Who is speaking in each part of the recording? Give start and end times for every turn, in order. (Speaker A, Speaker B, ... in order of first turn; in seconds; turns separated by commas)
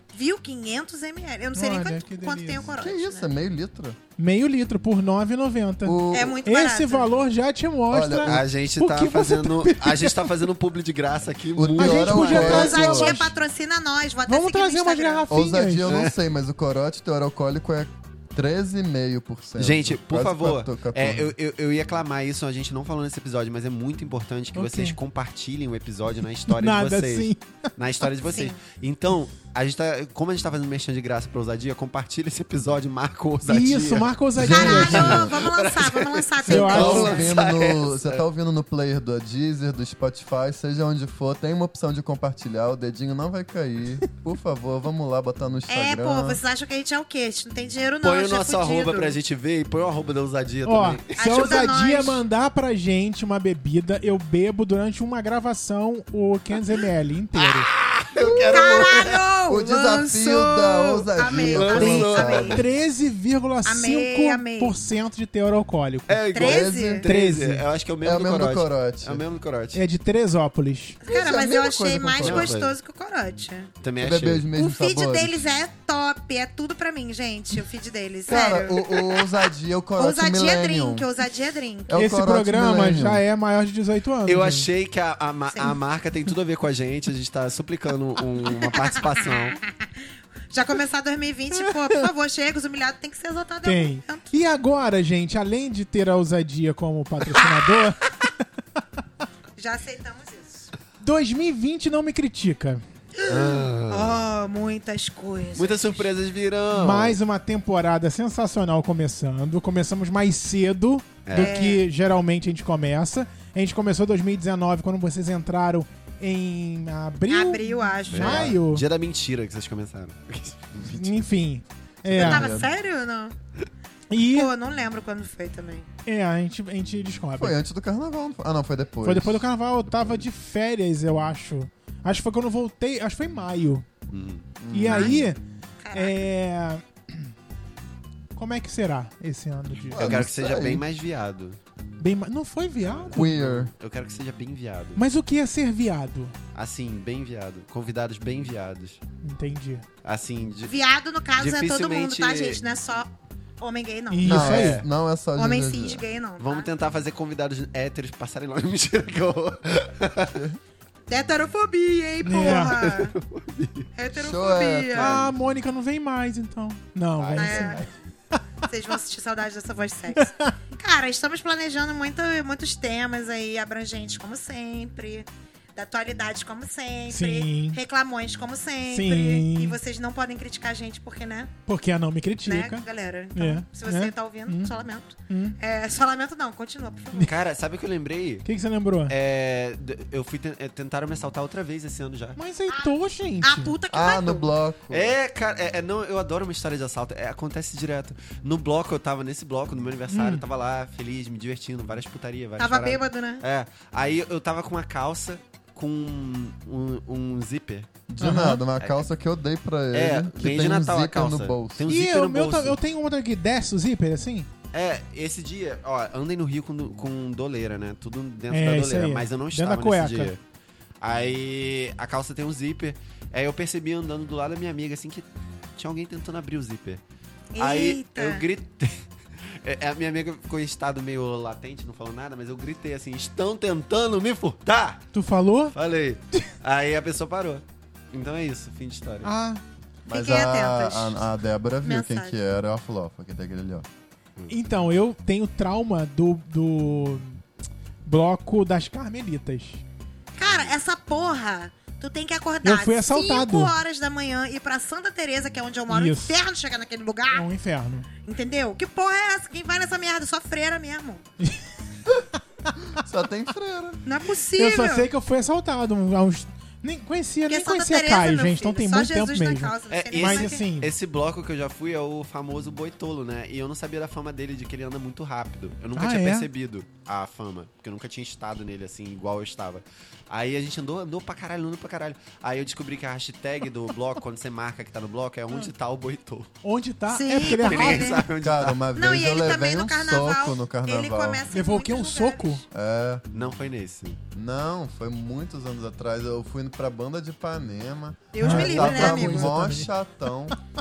Speaker A: 0.1-3.3, Speaker B: 1.6-2.7, Speaker C: 2.8-4.0, Speaker B: 4.2-10.4, Speaker C: 5.8-6.4, Speaker A: 6.1-7.1, Speaker C: 7.9-8.4, Speaker D: 8.3-12.8, Speaker C: 11.6-13.2, Speaker B: 11.8-13.3, Speaker A: 12.3-15.3, Speaker B: 14.3-15.9, Speaker C: 15.3-21.3, Speaker D: 15.8-16.1, Speaker D: 19.6-38.2, Speaker B: 24.6-25.0, Speaker B: 26.5-27.6, Speaker A: 28.2-28.6, Speaker B: 33.5-35.1, Speaker C: 34.4-35.4, Speaker A: 34.5-37.4, Speaker C: 36.4-46.4, Speaker B: 36.5-37.2, Speaker A: 45.7-49.2, Speaker D: 48.0-51.6, Speaker B: 50.6-57.7, Speaker A: 51.2-52.2, Speaker D: 57.4-59.2, Speaker C: 58.2-62.6, Speaker A: 58.5-62.6, Speaker D: 61.2-62.6, Speaker B: 61.9-66.2, Speaker A: 63.6-64.8, Speaker D: 66.1-69.8, Speaker A: 66.3-67.0, Speaker C: 66.4-67.0, Speaker B: 67.0-67.7, Speaker C: 68.0-69.2, Speaker B: 69.7-71.0, Speaker A: 71.0-73.7, Speaker C: 71.0-72.5, Speaker D: 72.2-72.7, Speaker D: 73.8-74.5, Speaker C: 74.0-75.4, Speaker A: 74.5-79.3, Speaker C: 78.3-81.1, Speaker A: 80.0-82.1, Speaker C: 81.9-83.2, Speaker B: 82.0-84.7, Speaker D: 84.3-89.6, Speaker A: 85.5-85.8, Speaker A: 88.5-89.7, Speaker A: 90.5-94.3, Speaker B: 93.6-98.3, Speaker A: 99.6-100.7, Speaker B: 101.0-102.8, Speaker A: 103.2-106.1, Speaker D: 103.3-104.2, Speaker D: 105.6-107.2, Speaker B: 106.7-118.8, Speaker D: 111.3-111.6, Speaker A: 111.3-111.9, Speaker A: 117.3-118.5, Speaker D: 118.1-121.3, Speaker B: 120.9-122.5, Speaker C: 122.1-122.7, Speaker A: 122.1-123.3, Speaker B: 124.1-124.5, Speaker A: 124.3-125.9, Speaker B: 126.1-127.6, Speaker C: 127.4-129.5, Speaker B: 129.0-133.9, Speaker D: 134.1-134.6, Speaker C: 134.6-135.2, Speaker B: 134.7-135.4, Speaker A: 134.9-135.2, Speaker A: 135.8-136.3, Speaker B: 135.9-137.3, Speaker B: 138.3-140.0, Speaker C: 139.9-140.8, Speaker D: 139.9-141.6, Speaker B: 142.0-143.3, Speaker D: 142.8-145.0, Speaker C: 143.1-143.7, Speaker B: 145.0-146.3, Speaker D: 146.6-149.0, Speaker B: 149.2-149.8, Speaker D: 150.0-150.7, Speaker A: 150.7-154.6, Speaker D: 151.4-152.6, Speaker B: 154.1-154.8, Speaker C: 154.2-156.1, Speaker D: 154.5-154.8, Speaker A: 155.3-156.7, Speaker D: 156.4-160.4, Speaker A: 161.1-163.2, Speaker B: 162.2-162.8, Speaker D: 162.4-163.9, Speaker A: 163.9-165.2, Speaker C: 164.1-165.3, Speaker B: 164.9-167.8, Speaker D: 167.2-167.9, Speaker A: 167.4-167.8, Speaker A: 168.7-181.5, Speaker B: 170.2-170.5, Speaker B: 177.1-177.8, Speaker B: 178.9-179.8, Speaker B: 181.7-184.7, Speaker A: 182.4-187.3, Speaker B: 185.3-185.6, Speaker D: 187.2-188.5, Speaker B: 188.4-189.1, Speaker D: 189.1-192.4, Speaker B: 192.4-193.8, Speaker A: 192.7-194.5, Speaker C: 193.9-195.2, Speaker D: 194.9-207.9, Speaker B: 200.1-200.4, Speaker A: 202.6-203.4, Speaker C: 208.1-211.8, Speaker B: 208.2-208.6, Speaker D: 209.9-212.8, Speaker B: 211.9-214.5, Speaker D: 214.7-220.4, Speaker B: 218.5-220.3, Speaker D: 221.0-227.0, Speaker A: 227.5-228.4, Speaker D: 227.6-235.1, Speaker B: 235.1-235.8, Speaker D: 235.7-239.3, Speaker B: 239.2-239.6, Speaker C: 240.1-243.8, Speaker A: 240.1-241.2, Speaker A: 241.8-242.3, Speaker B: 244.5-247.4, Speaker B: 248.0-249.8, Speaker A: 250.4-257.5, Speaker D: 250.4-250.8, Speaker B: 252.6-253.7, Speaker B: 255.9-256.4, Speaker B: 257.3-258.1, Speaker A: 258.3-261.3, Speaker C: 262.8-264.0, Speaker A: 264.1-265.1, Speaker B: 264.6-270.9, Speaker A: 267.5-270.6, Speaker D: 269.9-286.5, Speaker B: 276.0-276.5, Speaker B: 286.6-288.2, Speaker A: 287.1-288.2, Speaker D: 287.5-288.8, Speaker C: 288.4-291.4, Speaker A: 288.9-292.6, Speaker B: 291.5-292.6, Speaker C: 292.7-293.2, Speaker D: 293.3-294.2, Speaker C: 294.3-300.6, Speaker A: 298.3-299.6, Speaker B: 298.4-299.9